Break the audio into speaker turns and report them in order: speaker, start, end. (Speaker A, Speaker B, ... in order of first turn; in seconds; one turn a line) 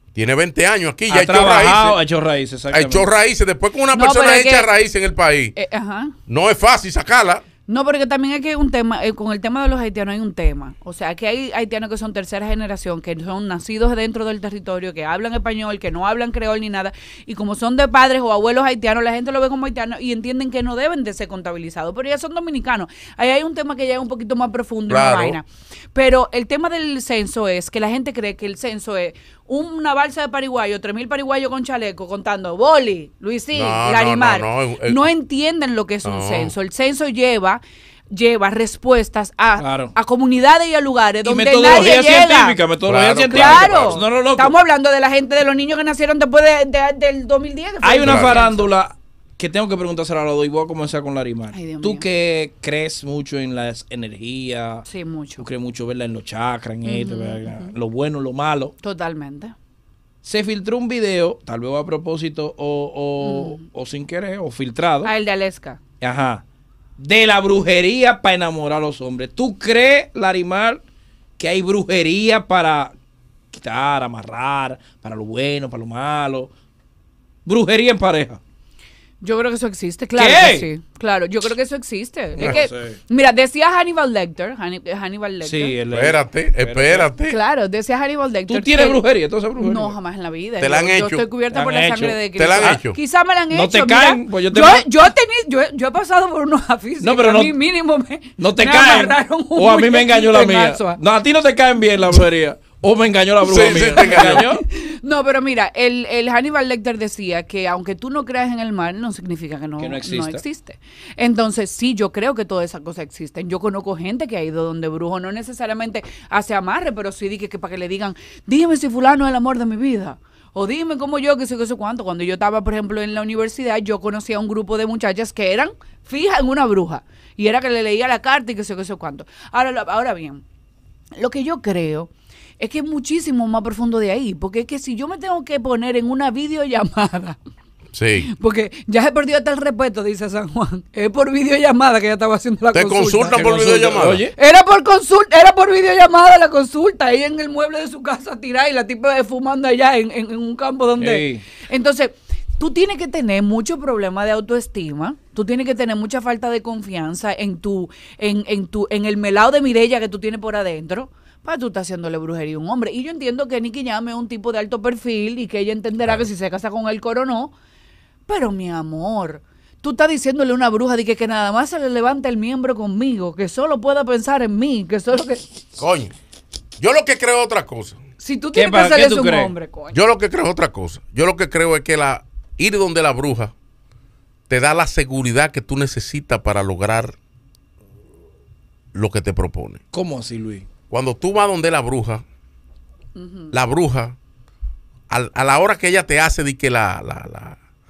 Speaker A: 0.1-2.0
Speaker B: 1.1-3.1
Speaker A: 2.7-5.5
Speaker C: 3.9-4.7
Speaker C: 5.6-6.2
Speaker A: 6.3-7.4
Speaker C: 7.7-42.6
Speaker A: 24.9-25.4
Speaker A: 33.5-35.0
Speaker A: 36.0-36.5
Speaker B: 39.6-39.9
Speaker B: 41.2-44.5
Speaker A: 42.9-44.0
Speaker C: 43.3-48.7
Speaker B: 47.8-54.9
Speaker A: 48.0-48.4
Speaker C: 51.5-52.0
Speaker C: 54.9-55.5
Speaker B: 55.4-58.7
Speaker C: 56.9-57.7
Speaker C: 58.8-59.5
Speaker B: 60.2-65.1
Speaker C: 63.2-63.6
Speaker C: 65.0-65.8
Speaker B: 66.0-66.4
Speaker B: 67.0-70.8
Speaker B: 71.4-72.9
Speaker B: 73.5-76.5
Speaker B: 77.5-78.4
Speaker C: 79.2-85.8
Speaker B: 80.2-80.7
Speaker B: 82.4-83.0
Speaker B: 85.4-87.1
Speaker A: 85.9-87.4
Speaker C: 87.3-89.0
Speaker B: 88.5-89.9
Speaker C: 89.6-101.0
Speaker A: 90.6-91.2
Speaker B: 91.5-92.2
Speaker A: 92.4-93.0
Speaker B: 93.5-94.8
Speaker B: 97.0-97.5
Speaker B: 98.4-104.6
Speaker A: 103.5-104.4
Speaker C: 104.0-130.4
Speaker B: 109.8-110.4
Speaker C: 131.2-137.4
Speaker A: 137.9-138.3
Speaker C: 138.2-143.5
Speaker A: 142.7-144.2
Speaker B: 143.3-144.3
Speaker C: 144.4-167.5
Speaker B: 151.0-151.4
Speaker C: 168.3-175.4
Speaker A: 175.8-176.1
Speaker A: 176.8-178.0
Speaker C: 178.2-180.0
Speaker B: 178.6-179.5
Speaker A: 179.9-183.5
Speaker A: 184.5-187.2
Speaker A: 188.9-189.8
Speaker B: 189.9-190.7
Speaker A: 190.9-192.2
Speaker C: 193.2-193.5
Speaker A: 193.5-194.2
Speaker A: 195.1-197.6